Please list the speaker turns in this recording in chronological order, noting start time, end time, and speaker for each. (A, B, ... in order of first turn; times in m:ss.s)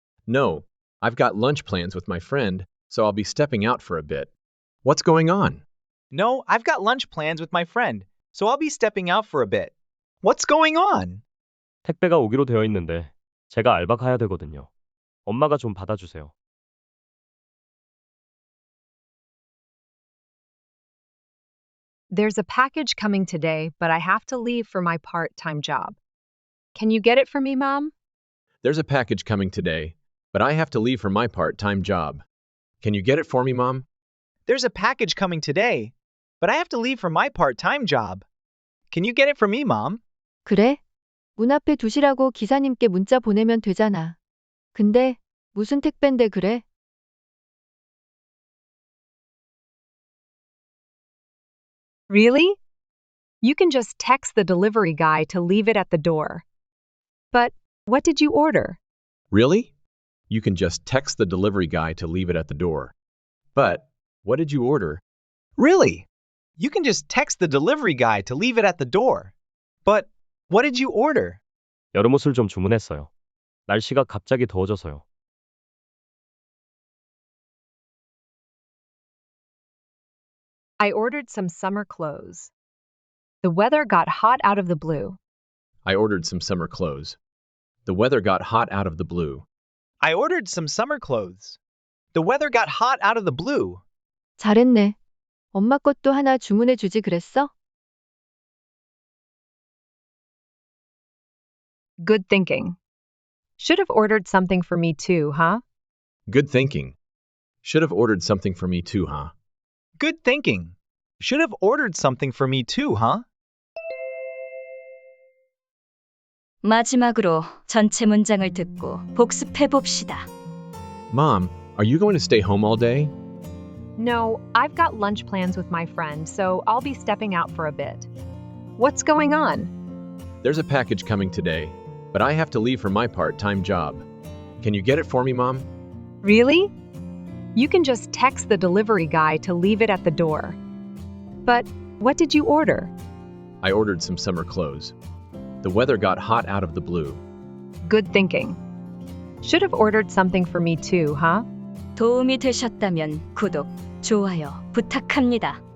0:00.3-0:04.3 A
0:04.8-0:05.6 A
0:06.1-0:09.7 B
0:10.2-0:11.2 B
0:11.8-0:14.7 C
0:15.2-0:16.3 C
0:22.1-0:26.0 D
0:26.7-0:27.9 D
0:28.6-0:32.2 A
0:32.8-0:33.8 A
0:34.4-0:38.2 B
0:38.9-0:40.0 B
0:40.4-0:40.8 E
0:41.4-0:44.2 E
0:44.7-0:46.6 E
0:52.1-0:52.6 D
0:53.4-0:56.4 D
0:57.3-0:58.8 D
0:59.3-0:59.7 A
1:00.3-1:02.9 A
1:03.5-1:05.0 A
1:05.6-1:06.0 B
1:06.6-1:09.3 B
1:09.8-1:11.4 B
1:11.9-1:13.1 C
1:13.7-1:15.0 C
1:20.8-1:22.5 D
1:23.4-1:25.2 D
1:25.8-1:27.2 A
1:27.8-1:29.4 A
1:30.0-1:31.6 B
1:32.1-1:33.8 B
1:34.4-1:35.0 E
1:35.5-1:37.5 E
1:42.0-1:42.8 D
1:43.6-1:45.6 D
1:46.3-1:47.0 A
1:47.6-1:49.3 A
1:50.0-1:53.2 B
1:56.6-2:00.3 F
2:01.1-2:03.1 A
2:04.0-2:08.1 D
2:08.8-2:09.7 D
2:10.4-2:14.0 A
2:14.6-2:15.7 A
2:16.2-2:16.7 D
2:17.6-2:20.6 D
2:21.4-2:22.9 D
2:23.6-2:24.9 A
2:25.6-2:27.2 A
2:27.8-2:28.6 D
2:29.4-2:31.4 D
2:32.0-2:35.6 F